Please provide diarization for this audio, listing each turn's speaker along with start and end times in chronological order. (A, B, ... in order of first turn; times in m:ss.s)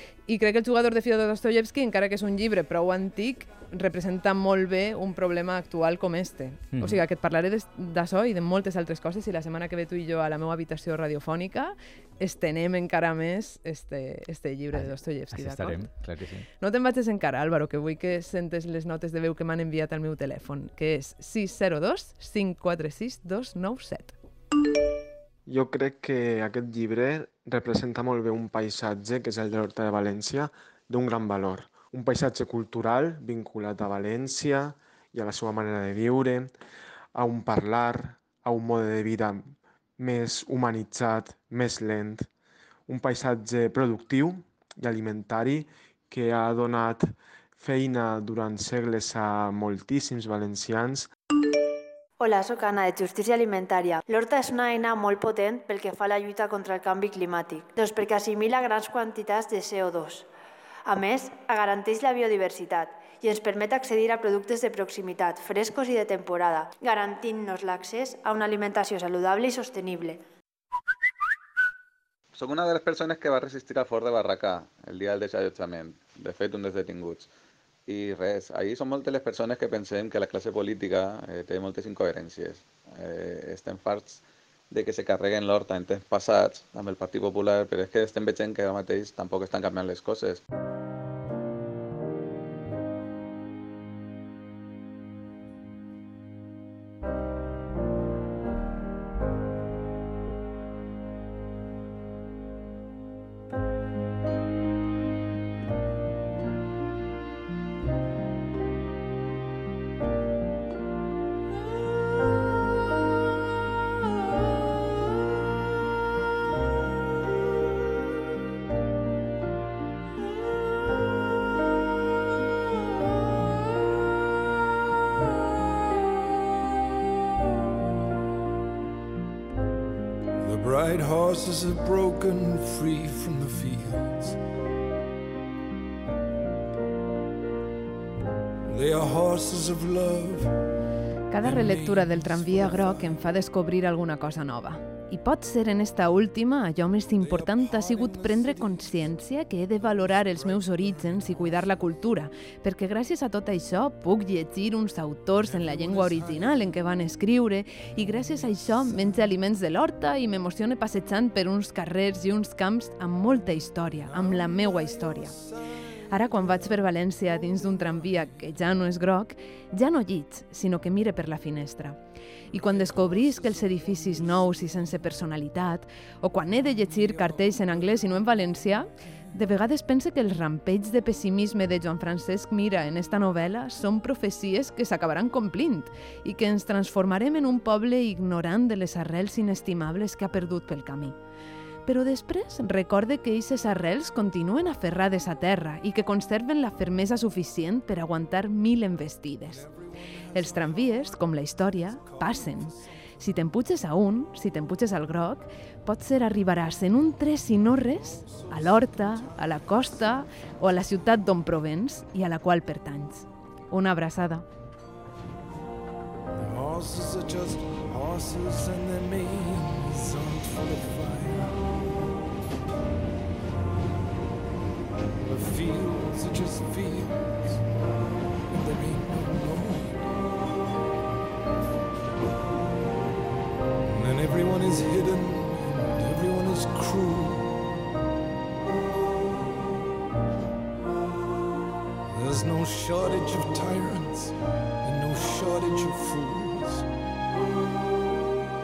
0:00.3-0:15.9 A
0:06.7-0:07.0 B
0:14.7-0:16.5 B
0:16.6-0:24.2 A
0:25.5-0:36.6 C
0:37.1-0:42.3 C
0:42.9-0:51.1 C
0:52.2-1:00.3 D
1:00.8-1:10.2 D
1:12.3-1:17.3 E
1:17.8-1:30.4 E
2:10.4-2:14.4 F
2:18.6-2:20.5 F
2:21.3-2:45.3 A
2:21.4-2:23.3 F
2:27.1-2:31.8 F
2:35.3-2:36.8 F
2:38.7-2:39.2 F
2:44.0-2:48.8 F
2:46.1-2:52.0 A
2:52.5-2:55.1 F
2:52.5-3:11.1 A
2:56.6-2:59.4 F
3:11.8-3:19.6 A
3:19.4-3:23.3 F
3:20.3-3:34.4 A
3:27.5-3:30.3 F
3:36.4-3:41.8 F
3:45.2-3:47.6 F
3:48.5-3:50.1 F
3:53.8-3:57.7 F
4:02.1-4:06.9 F